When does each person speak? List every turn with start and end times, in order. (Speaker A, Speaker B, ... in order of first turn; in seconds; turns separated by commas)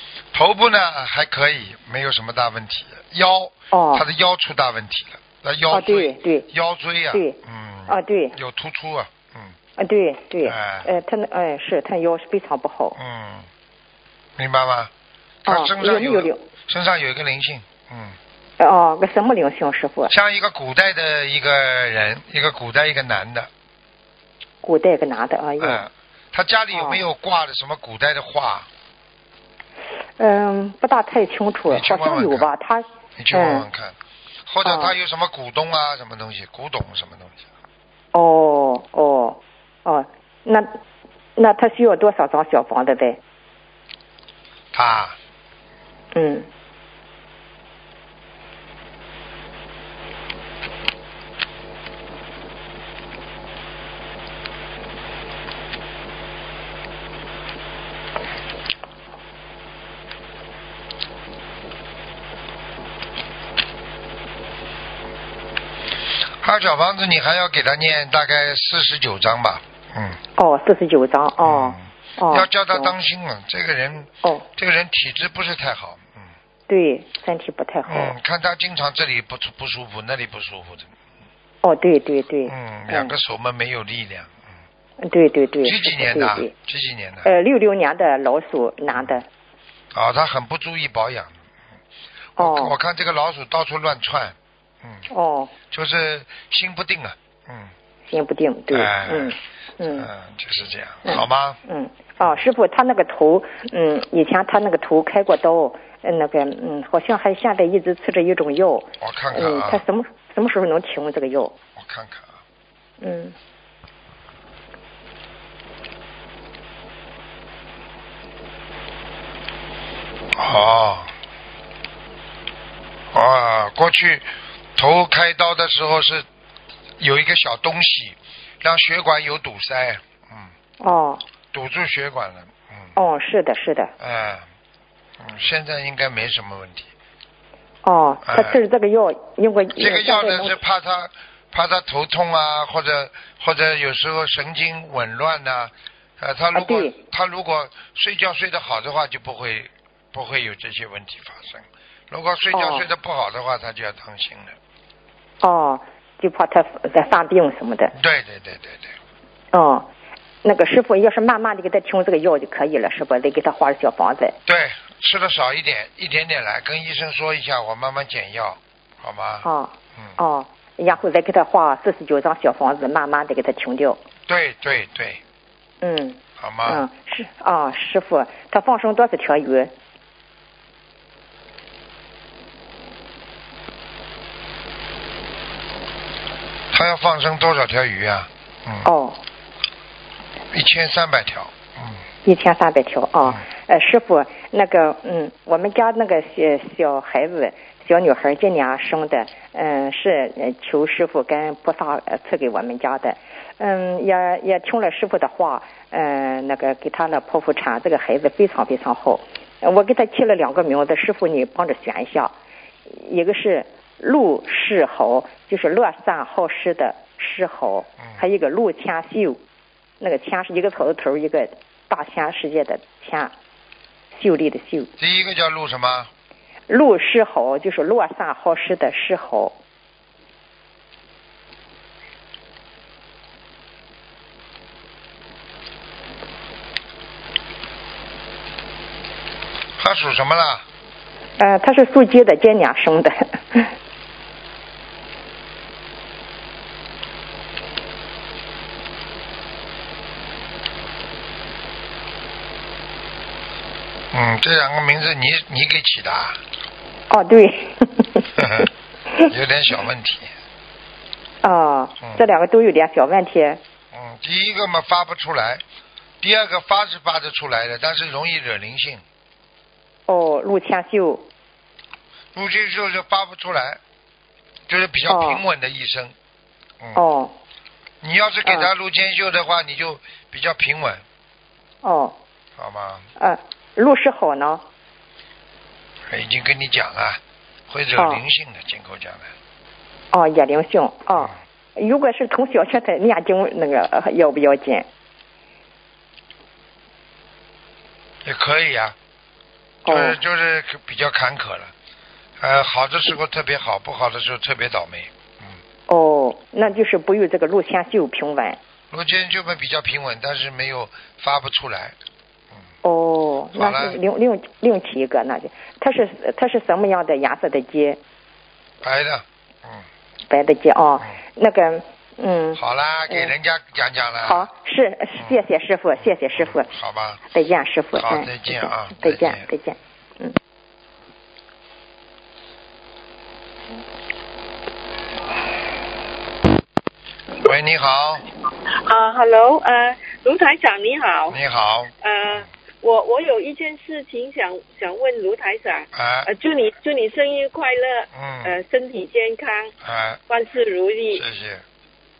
Speaker A: 0.3-9.6, Speaker B: 3.7-4.0, Speaker B: 5.7-6.5, Speaker B: 7.9-8.3, Speaker B: 9.8-13.0, Speaker A: 10.4-10.9, Speaker A: 13.0-13.5, Speaker A: 14.4-14.9, Speaker B: 15.5-16.4, Speaker A: 15.5-18.2, Speaker B: 18.6-20.1, Speaker A: 20.1-23.5, Speaker B: 24.6-25.9, Speaker A: 25.6-28.7, Speaker B: 26.7-27.0, Speaker B: 30.2-33.7, Speaker A: 31.7-32.5, Speaker A: 33.2-37.5, Speaker B: 34.6-35.0, Speaker B: 38.1-40.7, Speaker B: 41.4-43.2, Speaker A: 44.7-45.2, Speaker B: 46.1-46.5, Speaker A: 66.4-70.2, Speaker B: 70.4-72.9, Speaker A: 71.4-76.3, Speaker B: 76.7-78.1, Speaker A: 77.9-80.9, Speaker B: 81.6-83.1, Speaker A: 82.5-84.4, Speaker B: 85.0-86.5, Speaker A: 85.6-87.3, Speaker B: 87.2-89.2, Speaker A: 89.9-91.4, Speaker B: 92.4-92.8, Speaker A: 92.4-95.1, Speaker B: 95.1-95.5, Speaker A: 95.7-97.7, Speaker B: 98.1-100.1, Speaker A: 98.7-99.4, Speaker A: 99.9-101.6, Speaker B: 101.0-111.5, Speaker A: 109.0-109.8, Speaker A: 111.8-112.4, Speaker B: 113.0-113.3, Speaker A: 120.3-121.1, Speaker A: 123.1-126.3, Speaker A: 127.0-130.5, Speaker B: 130.8-131.2, Speaker A: 131.5-132.9, Speaker B: 133.0-133.9, Speaker A: 134.0-134.5, Speaker A: 135.2-136.9, Speaker B: 137.8-140.6, Speaker A: 138.2-138.6, Speaker A: 139.8-154.6, Speaker B: 146.5-147.0, Speaker B: 152.5-152.9, Speaker B: 155.4-157.9, Speaker A: 157.9-159.0, Speaker B: 159.5-159.9, Speaker B: 160.4-164.4, Speaker A: 164.5-169.5, Speaker B: 169.4-174.0, Speaker A: 174.3-175.2, Speaker B: 175.8-179.7, Speaker A: 176.4-176.8, Speaker A: 186.7-188.9, Speaker B: 188.8-189.2, Speaker A: 190.5-192.0, Speaker B: 192.2-212.3, Speaker B: 212.9-219.4, Speaker B: 220.0-223.3, Speaker B: 224.1-224.9, Speaker A: 225.0-226.1, Speaker B: 226.7-229.6, Speaker A: 239.8-240.6, Speaker B: 241.4-243.7, Speaker A: 254.1-256.4, Speaker B: 257.1-259.3, Speaker A: 258.4-258.7, Speaker A: 259.3-260.3, Speaker B: 261.4-263.6, Speaker A: 263.9-265.6, Speaker A: 266.2-269.0, Speaker B: 270.1-271.2, Speaker A: 272.3-273.8, Speaker A: 274.7-276.1, Speaker B: 275.1-275.4, Speaker B: 276.9-277.3, Speaker A: 278.0-281.0, Speaker B: 278.4-278.7, Speaker B: 281.8-282.2, Speaker A: 282.6-283.1, Speaker B: 283.2-284.6, Speaker A: 286.1-289.3, Speaker B: 288.0-288.2, Speaker B: 290.1-294.9, Speaker A: 298.2-299.0, Speaker B: 299.9-300.2, Speaker A: 299.9-301.7, Speaker A: 302.4-305.6, Speaker B: 305.9-308.6, Speaker A: 308.9-312.0, Speaker B: 312.8-318.0, Speaker A: 313.6-314.0, Speaker A: 318.8-319.9, Speaker B: 320.3-323.3, Speaker A: 322.6-324.5, Speaker B: 324.2-326.7, Speaker A: 326.0-327.2, Speaker B: 327.3-330.4, Speaker A: 327.9-329.5, Speaker A: 337.4-338.2, Speaker C: 338.7-341.4, Speaker A: 341.3-342.4, Speaker C: 342.0-349.7, Speaker A: 345.9-346.3, Speaker A: 348.1-348.6, Speaker A: 349.8-350.2, Speaker C: 350.3-351.2, Speaker A: 351.1-351.6